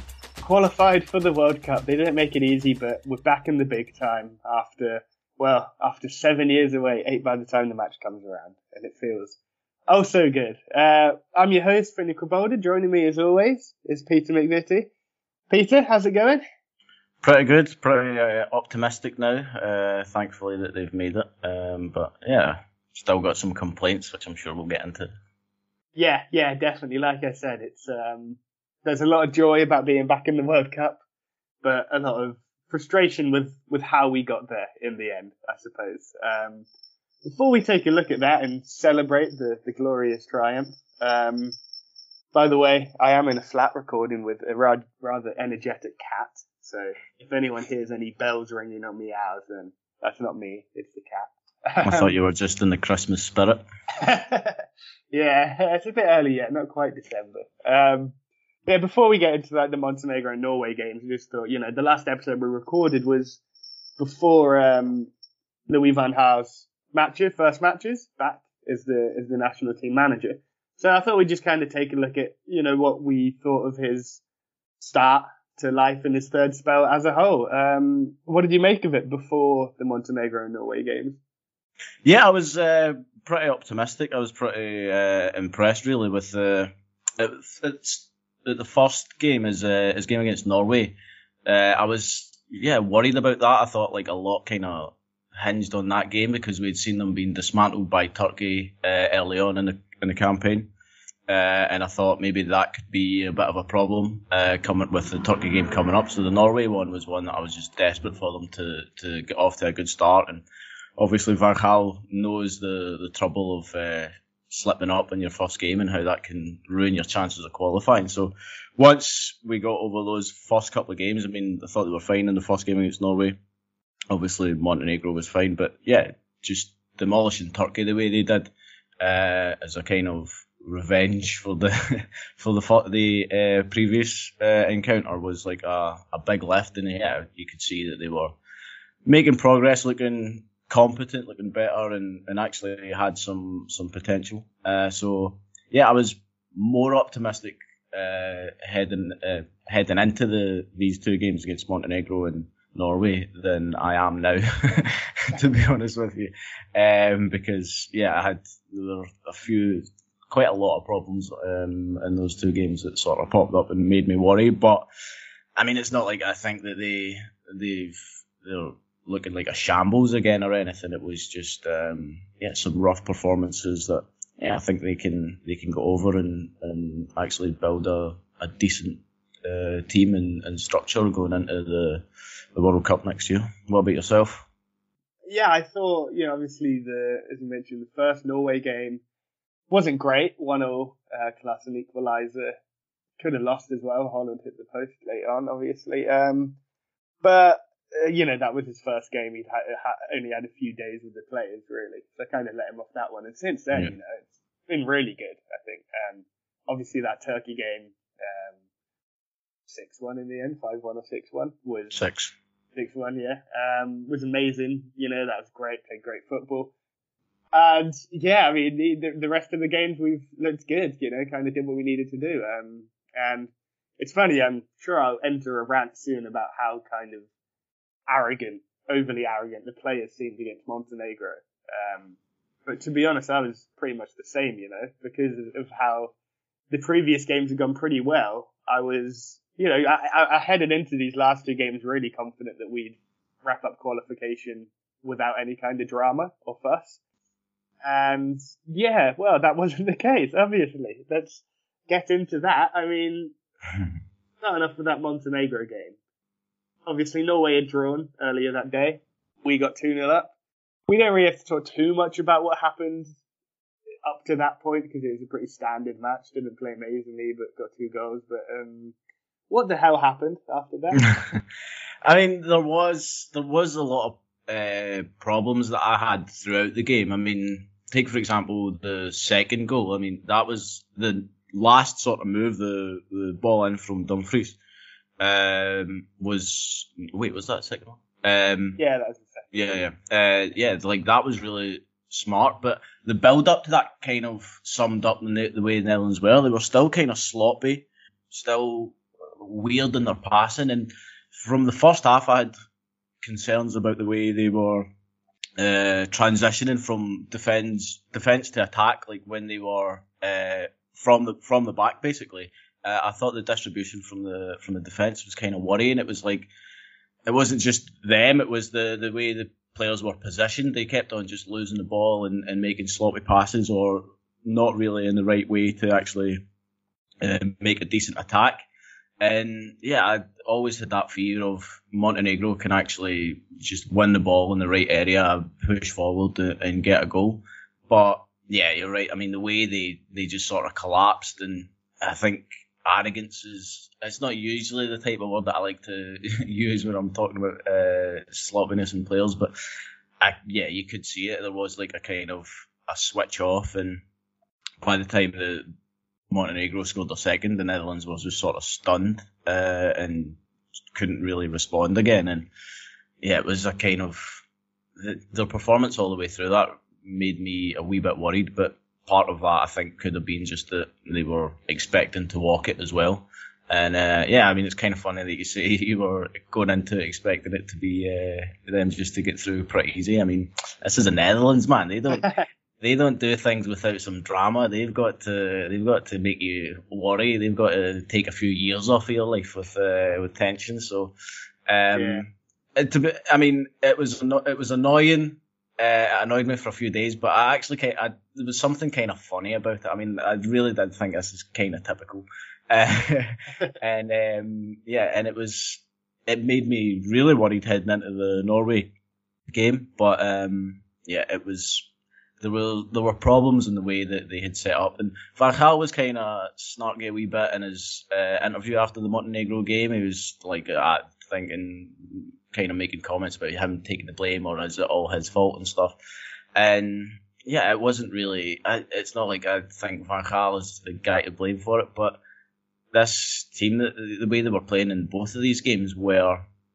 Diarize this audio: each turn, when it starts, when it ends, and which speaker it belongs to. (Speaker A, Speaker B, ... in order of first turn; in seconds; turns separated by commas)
Speaker A: 0.4-9.4, Speaker A: 9.9-14.9, Speaker A: 15.5-16.4, Speaker B: 17.2-25.1, Speaker A: 26.0-31.0, Speaker A: 31.6-36.7, Speaker A: 37.3-41.6, Speaker A: 42.3-52.1, Speaker B: 51.8-53.6, Speaker A: 54.0-58.1, Speaker A: 58.7-63.4, Speaker A: 64.0-65.1, Speaker A: 65.7-74.2, Speaker A: 74.8-81.2, Speaker B: 82.0-90.9, Speaker B: 91.5-100.7, Speaker B: 101.3-110.5, Speaker B: 111.0-123.4, Speaker B: 124.1-138.4, Speaker B: 139.1-164.9, Speaker B: 165.6-184.4, Speaker A: 185.3-189.0, Speaker A: 189.7-192.6, Speaker A: 193.2-196.6, Speaker A: 197.2-208.6, Speaker A: 209.7-212.0, Speaker B: 211.9-212.3, Speaker A: 212.8-216.7, Speaker A: 217.5-227.3, Speaker A: 228.1-236.1, Speaker A: 236.7-247.0, Speaker A: 247.8-253.3, Speaker A: 254.4-256.0, Speaker A: 256.9-260.3, Speaker A: 260.9-263.2, Speaker A: 264.1-269.0, Speaker A: 269.5-271.1, Speaker B: 271.0-271.4, Speaker B: 272.0-284.6, Speaker B: 285.2-288.8, Speaker A: 288.8-289.8, Speaker B: 289.5-302.5, Speaker B: 303.2-304.9, Speaker B: 305.6-316.5, Speaker B: 317.2-326.4, Speaker B: 327.2-328.7, Speaker B: 329.2-349.5, Speaker B: 350.2-354.0, Speaker B: 354.8-355.7, Speaker B: 356.3-360.4, Speaker B: 360.9-362.5, Speaker B: 363.2-364.4, Speaker B: 365.0-382.3, Speaker A: 382.1-382.5, Speaker B: 382.8-391.1, Speaker B: 391.7-408.9, Speaker A: 391.9-392.2, Speaker B: 409.5-411.9, Speaker B: 412.4-426.0, Speaker B: 426.6-432.2, Speaker B: 432.9-436.5